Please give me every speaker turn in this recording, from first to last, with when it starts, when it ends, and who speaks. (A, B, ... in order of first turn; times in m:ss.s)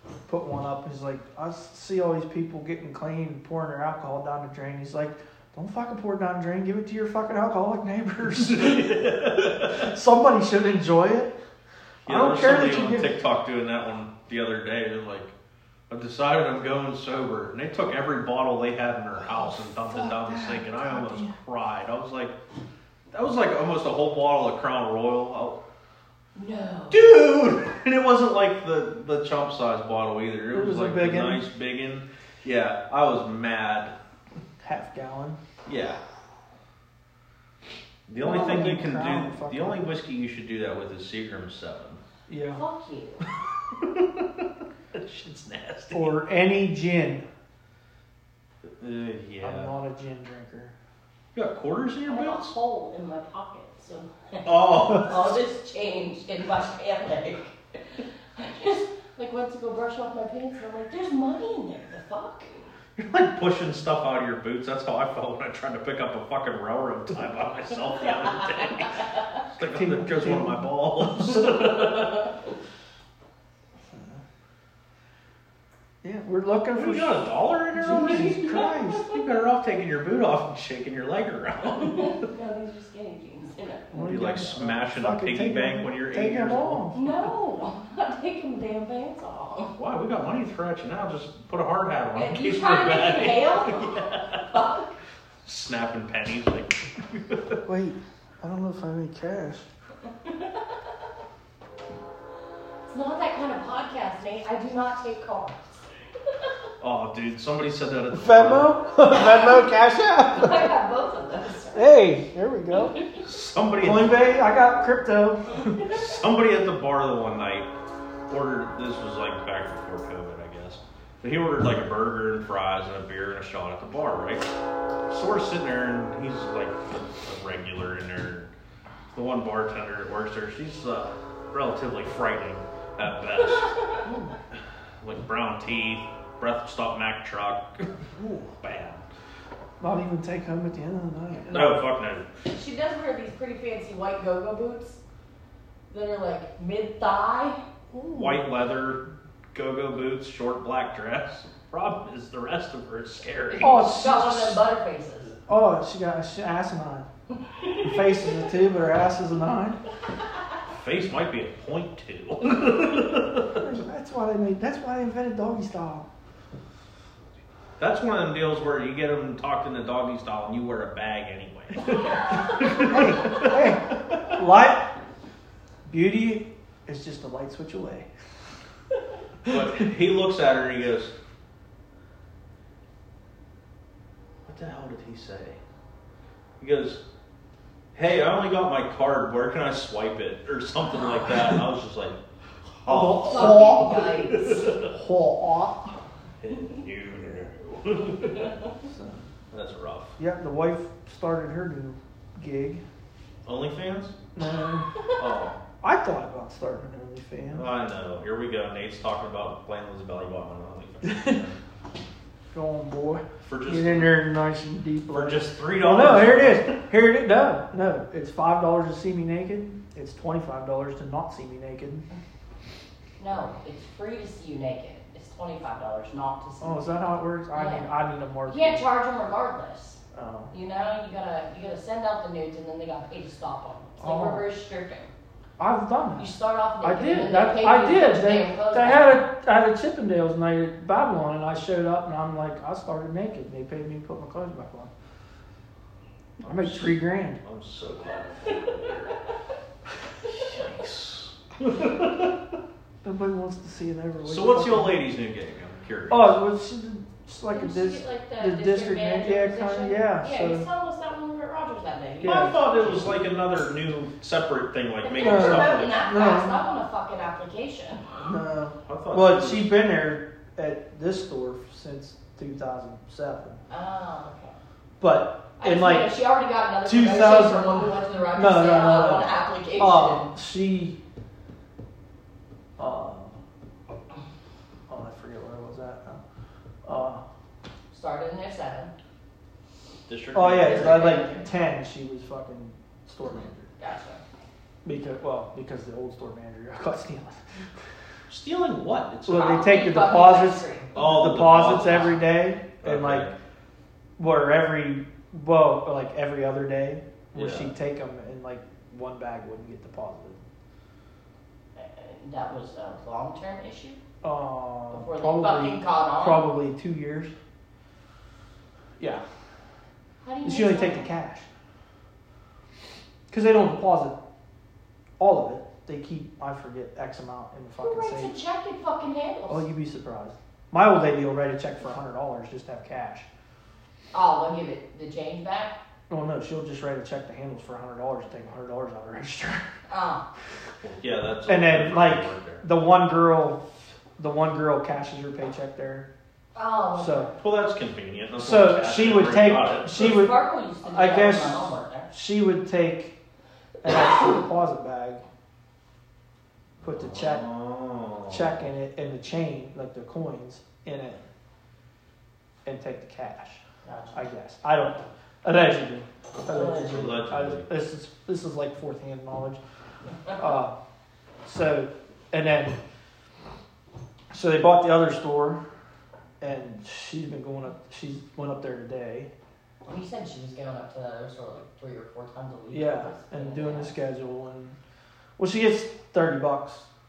0:00.3-0:11.3 A
0:08.2-0:09.9 B
0:12.0-0:15.3 B
0:12.1-0:13.1 A
0:15.9-0:22.3 B
0:19.8-0:21.3 A
0:23.1-0:25.6 B
0:26.3-0:27.0 C
0:26.9-0:33.9 B
0:30.5-0:31.4 A
0:34.6-0:35.4 A
0:35.6-0:36.0 B
0:38.1-0:42.0 B
0:38.2-0:39.9 A
0:42.3-0:42.6 A
0:42.5-0:43.2 C
0:43.7-0:46.2 B
0:45.9-0:47.2 A
0:48.6-0:49.7 B
0:49.4-0:50.7 A
0:51.3-0:52.5 B
0:52.1-1:02.7 C
0:54.4-0:55.4 B
1:03.0-1:12.3 B
1:08.1-1:09.4 C
1:09.7-1:10.6 A
1:11.3-1:12.4 C
1:13.9-1:14.2 A
1:16.0-1:19.1 A
1:16.7-1:22.2 B
1:17.9-1:19.2 C
1:21.7-1:24.1 C
1:23.9-1:27.0 A
1:24.1-1:26.9 B
1:26.9-1:29.8 C
1:29.8-1:34.4 B
1:32.1-1:34.9 C
1:35.4-1:37.6 B
1:37.6-1:39.6 A
1:40.2-1:40.8 C
1:42.9-1:45.9 C
1:46.8-1:48.7 B
1:48.1-1:50.7 A
1:49.1-1:49.7 C
1:50.3-1:51.9 C
1:51.7-1:53.0 A
1:52.7-1:53.2 C
1:53.2-1:54.3 B
1:53.8-1:55.6 A
1:55.7-1:57.7 B
1:58.3-2:04.5 B
2:05.1-2:08.5 B
2:09.1-2:13.7 B
2:14.5-2:19.0 B
2:19.8-2:21.8 A
2:21.5-2:22.3 B
2:22.5-2:25.0 C
2:25.9-2:27.6 C
2:27.9-2:28.4 A
2:28.1-2:29.0 B
2:29.5-2:33.8 B
2:33.5-2:35.3 C
2:33.6-2:34.6 A
2:35.5-2:37.1 A
2:37.8-2:39.8 A
2:40.7-2:43.6 B
2:43.5-2:46.0 A
2:47.8-2:54.3 B
2:52.7-2:54.8 A
2:55.8-2:58.1 A
2:59.4-3:01.1 B
3:04.4-3:05.6 B
3:06.6-3:07.0 B
3:07.9-3:12.2 B
3:12.8-3:14.9 B
3:12.9-3:15.9 A
3:13.1-3:14.7 C
3:16.4-3:18.6 B
3:18.9-3:19.2 A
3:19.5-3:20.1 B
3:20.2-3:22.8 A
3:23.4-3:24.2 B
3:24.4-3:25.0 A
3:25.2-3:25.6 B
3:25.8-3:27.7 A
3:27.5-3:31.6 B
3:31.0-3:31.4 A
3:32.5-3:42.0 A
3:33.4-3:34.2 B
3:35.1-3:36.8 B
3:43.2-3:46.9 C
3:46.6-3:48.8 A
3:47.5-3:47.9 C
3:48.5-3:50.0 C
3:50.1-3:50.5 A
3:50.5-3:55.1 C
3:54.0-3:54.4 A
3:55.6-4:04.9 A
3:56.2-3:59.2 C
4:06.4-4:07.4 A
4:06.4-4:09.2 B
4:08.4-4:09.2 C
4:10.3-4:12.4 B
4:13.0-4:15.0 A
4:14.2-4:16.4 B
4:16.1-4:20.6 A
4:17.5-4:23.1 C
4:22.2-4:26.0 B
4:22.2-4:22.6 A
4:25.0-4:28.1 C
4:25.2-4:26.6 A
4:28.2-4:33.6 A
4:28.8-4:29.7 B
4:33.7-4:34.5 C
4:35.0-4:36.1 A
4:35.6-4:40.3 C
4:36.8-4:41.0 A
4:42.8-4:43.4 A
4:44.9-4:46.2 A
4:46.8-4:47.2 A
4:47.9-4:48.9 C
4:50.1-4:51.2 B
4:50.3-4:53.7 A
4:50.6-4:51.5 C
4:53.8-4:54.2 C
4:54.8-4:57.4 A
4:58.3-4:59.6 B
4:59.3-5:03.3 A
4:59.3-5:00.9 C
5:00.9-5:02.2 B
5:02.8-5:03.3 B
5:04.2-5:10.4 A
5:07.3-5:07.7 B
5:11.8-5:14.0 C
5:14.2-5:17.3 A
5:14.9-5:16.4 C
5:20.2-5:21.1 C
5:20.4-5:21.4 A
5:23.3-5:24.2 A
5:25.2-5:28.3 A
5:27.8-5:29.6 C
5:29.5-5:33.3 A
5:34.1-5:35.8 C
5:36.1-5:39.6 A
5:39.9-5:40.2 C
5:40.8-5:42.6 B
5:41.4-5:43.6 A
5:44.2-5:46.1 A
5:46.5-5:47.3 C
5:46.9-5:47.3 A
5:47.4-5:50.0 B
5:48.4-5:53.1 A
5:49.9-5:52.1 C
5:53.8-5:55.2 A
5:56.8-5:57.4 A
5:56.8-5:58.6 B
5:58.3-6:01.2 A
6:02.6-6:03.6 A
6:03.8-6:04.2 C
6:04.1-6:09.6 A
6:06.4-6:07.0 C
6:06.8-6:07.6 B
6:10.3-6:10.7 A
6:11.4-6:12.8 A
6:14.3-6:15.6 A
6:16.4-6:19.3 A
6:19.8-6:23.9 C
6:22.7-6:24.8 A
6:25.4-6:26.9 A